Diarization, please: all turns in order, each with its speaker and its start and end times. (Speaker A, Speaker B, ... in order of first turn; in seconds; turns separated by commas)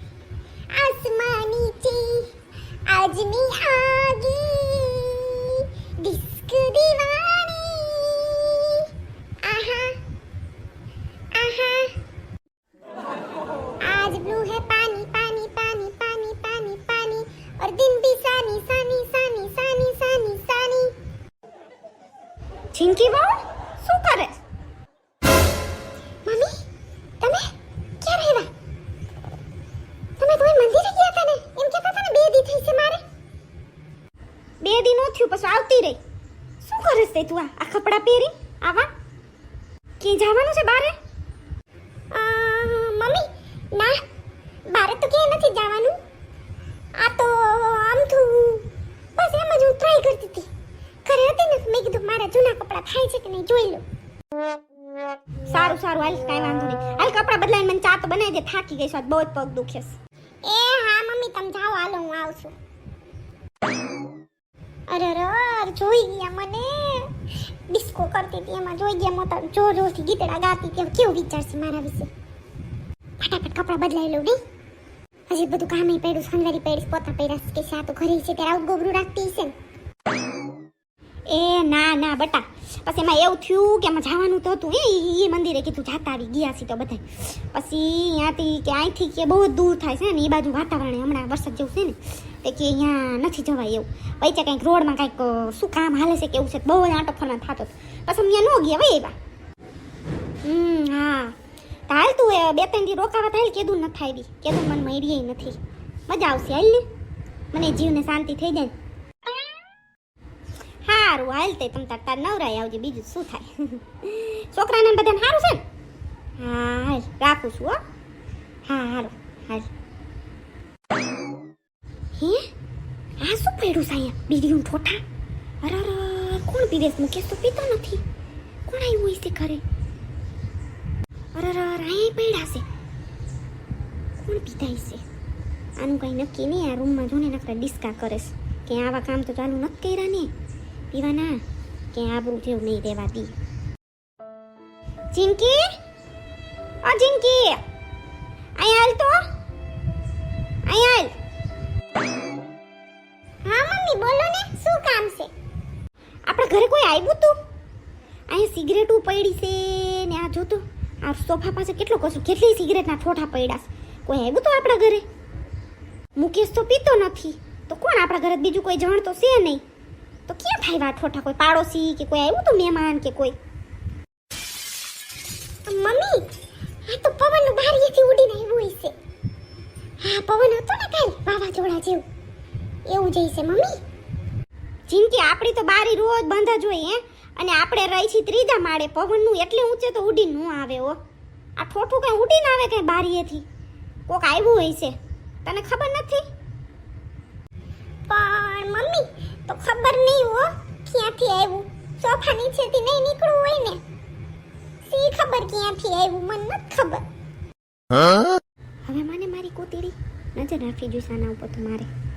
Speaker A: 0.7-2.3, Speaker A: 2.9-8.9, Speaker A: 9.4-10.0, Speaker A: 11.3-11.9, Speaker A: 13.8-20.9, Speaker B: 22.7-24.4, Speaker A: 26.2-26.5, Speaker A: 27.2-27.5, Speaker A: 28.0-28.5, Speaker A: 30.2-33.0, Speaker B: 34.6-36.0, Speaker B: 36.6-38.3, Speaker A: 38.6-38.9, Speaker B: 40.0-41.0, Speaker A: 42.1-44.0, Speaker A: 44.7-46.0, Speaker A: 47.0-48.6, Speaker A: 49.2-50.5, Speaker A: 51.0-53.8, Speaker B: 55.5-59.9, Speaker A: 60.4-62.5, Speaker A: 64.9-67.1, Speaker A: 67.7-72.1, Speaker A: 73.2-74.4, Speaker A: 75.3-79.5, Speaker B: 81.3-99.1, Speaker B: 100.4-101.3, Speaker B: 101.9-105.5, Speaker B: 106.1-106.8, Speaker B: 107.5-108.7, Speaker B: 110.8-115.6, Speaker B: 116.4-117.8, Speaker B: 118.7-119.7, Speaker B: 122.2-122.5, Speaker B: 123.2-125.0, Speaker B: 125.6-128.0, Speaker B: 128.7-129.6, Speaker B: 131.3-132.6, Speaker B: 134.2-135.0, Speaker B: 135.8-140.3, Speaker B: 140.9-141.4, Speaker B: 141.9-143.3, Speaker B: 145.1-145.7, Speaker B: 146.8-147.6, Speaker B: 148.6-149.2, Speaker B: 150.7-151.1, Speaker A: 153.4-155.3, Speaker B: 156.2-157.3, Speaker B: 158.3-165.0, Speaker B: 166.2-169.6, Speaker B: 170.3-173.3, Speaker A: 175.7-176.2, Speaker A: 176.9-178.9, Speaker A: 180.0-182.0, Speaker A: 182.9-183.8, Speaker B: 184.9-191.0, Speaker B: 191.6-193.4, Speaker B: 194.1-196.2, Speaker A: 198.1-203.8, Speaker A: 204.8-207.0, Speaker B: 208.8-211.9